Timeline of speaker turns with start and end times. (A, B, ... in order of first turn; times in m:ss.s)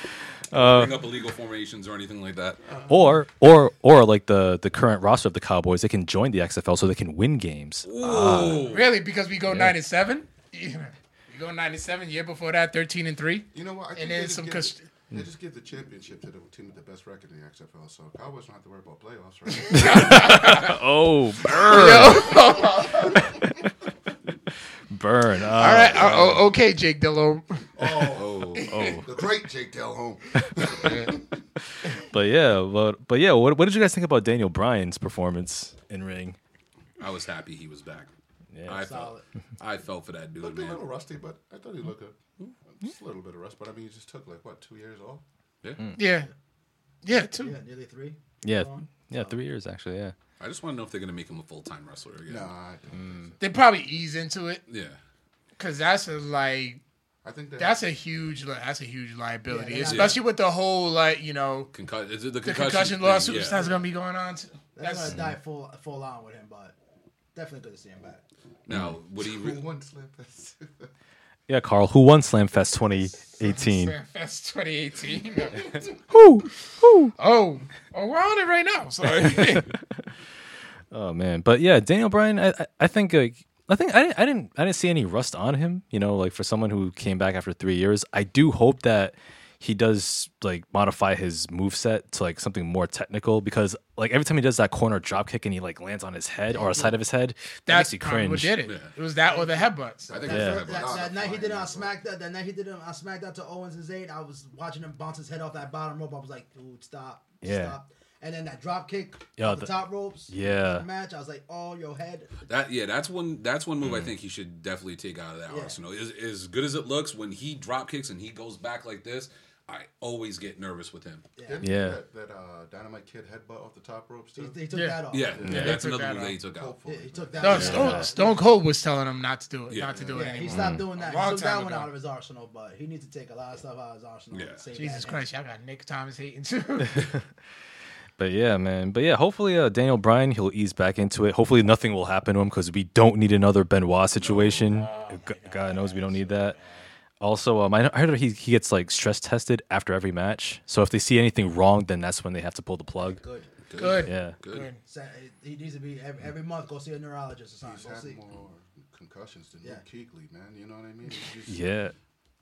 0:00.5-0:01.0 A
0:00.5-0:02.6 B
0:02.6-0:03.1 C
0:02.9-0:08.7 A
0:07.8-0:08.9 B
0:08.6-0:14.9 D
0:09.5-0:09.8 A
0:13.5-0:20.5 C
0:19.7-0:20.8 D
0:19.7-0:22.4 A
0:21.6-0:23.2 D
0:22.0-0:23.4 C
0:23.2-0:23.7 A
0:24.9-0:26.4 A
0:25.5-0:29.0 D
0:27.7-0:31.2 C
0:28.1-0:28.6 B
0:28.7-0:29.0 A
0:32.0-0:36.4 A
0:37.0-0:38.1 B
0:38.5-0:38.8 A
0:38.7-0:40.8 B
0:38.7-0:39.2 E
0:40.4-0:42.2 C
0:42.7-0:45.2 C
0:45.6-0:45.9 B
0:46.0-0:46.3 D
0:47.0-0:47.5 D
0:47.3-0:49.4 E
0:48.4-0:50.1 A
0:50.4-0:52.5 B
0:52.3-0:53.4 C
0:53.4-0:54.6 D
0:54.7-0:55.0 B
0:55.6-0:56.8 D
0:57.2-0:57.9 C
0:57.6-1:01.7 D
0:59.5-1:00.2 E
0:59.8-1:00.2 B
1:01.7-1:03.6 B
1:02.4-1:05.2 D
1:03.5-1:03.9 E
1:04.8-1:06.7 E
1:05.1-1:05.3 A
1:07.3-1:08.2 E
1:08.6-1:09.6 B
1:09.2-1:10.9 C
1:11.5-1:13.9 A
1:13.4-1:15.8 D
1:16.1-1:17.1 A
1:17.2-1:19.7 D
1:19.3-1:19.6 A
1:20.9-1:38.6 A
1:36.5-1:37.0 E
1:37.7-1:40.1 D
1:38.6-1:38.9 B
1:39.2-1:52.3 E
1:40.1-1:42.0 C
1:40.1-1:41.0 B
1:40.3-1:40.6 A
1:47.4-1:47.8 A
1:49.4-1:50.8 A
1:52.5-2:01.2 B
1:53.8-1:54.1 A
1:55.5-1:55.8 E
2:01.4-2:01.6 E
2:01.4-2:04.7 C
2:01.6-2:02.0 A
2:04.4-2:05.5 E
2:04.7-2:06.4 D
2:05.1-2:06.7 B
2:05.2-2:05.8 C
2:05.4-2:05.8 A
2:06.4-2:08.0 C
2:06.8-2:08.6 E
2:07.4-2:11.9 D
2:07.5-2:08.1 A
2:09.7-2:10.3 B
2:10.1-2:15.2 E
2:10.5-2:10.8 A
2:14.3-2:14.6 B
2:14.7-2:17.1 D
2:16.8-2:17.1 A
2:18.2-2:26.6 A
2:24.2-2:24.8 B
2:24.6-2:26.8 D
2:27.2-2:33.2 A
2:33.2-2:33.5 E
2:33.7-2:34.7 B
2:33.8-2:34.8 D
2:34.0-2:34.4 A
2:34.8-2:38.2 E
2:37.6-2:41.6 C
2:41.5-2:41.9 A